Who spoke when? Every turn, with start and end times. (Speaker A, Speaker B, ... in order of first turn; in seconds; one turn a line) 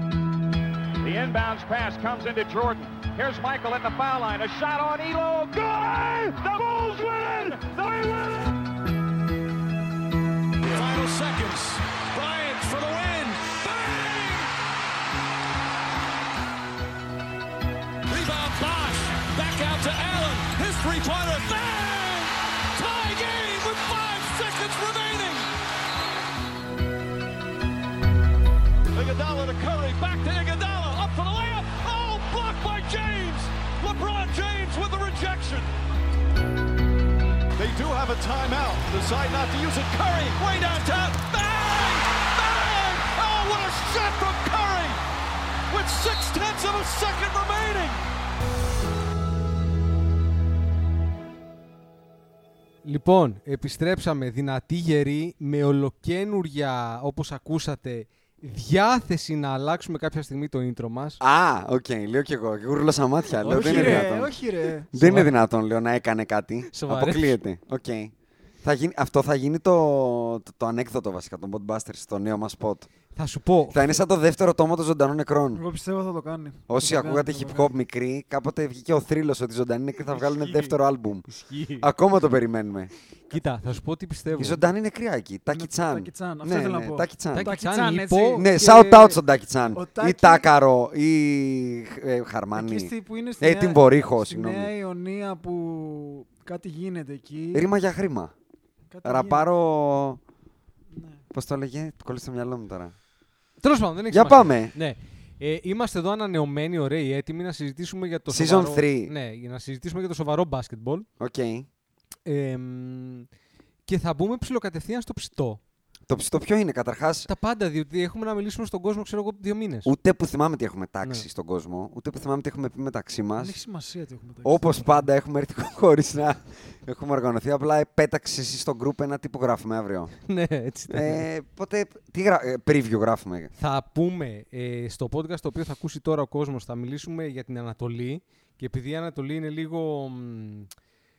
Speaker A: 1.0-8.6
Speaker B: 10.6-14.5
Speaker B: 18.1-25.5
Speaker B: 28.9-35.7
Speaker B: 37.6-45.0
Speaker B: 45.7-48.0
Speaker C: 52.8-61.2
Speaker D: 61.2-64.3
Speaker C: 63.4-64.1
Speaker E: 63.4-65.0
Speaker D: 64.9-72.9
Speaker C: 65.0-65.3
Speaker C: 66.7-67.4
Speaker C: 73.1-74.0
Speaker D: 73.7-75.6
Speaker E: 75.5-77.7
Speaker D: 76.7-81.2
Speaker E: 80.1-80.8
Speaker C: 81.3-81.9
Speaker D: 81.8-82.9
Speaker C: 83.3-84.6
Speaker D: 84.4-87.5
Speaker E: 85.5-88.5
Speaker C: 87.3-89.2
Speaker D: 88.3-94.7
Speaker E: 89.7-90.5
Speaker E: 92.5-97.7
Speaker D: 97.5-98.3
Speaker E: 98.9-99.5
Speaker D: 99.0-100.2
Speaker E: 100.9-101.2
Speaker D: 101.3-102.9
Speaker C: 103.6-111.1
Speaker D: 104.1-104.7
Speaker D: 108.3-109.1
Speaker D: 111.2-111.7
Speaker C: 112.2-113.3
Speaker C: 113.8-115.6
Speaker D: 116.1-117.3
Speaker C: 117.3-119.9
Speaker D: 119.8-123.5
Speaker E: 123.4-125.0
Speaker D: 124.4-130.1
Speaker C: 130.2-131.3
Speaker D: 130.9-133.5
Speaker C: 133.6-140.7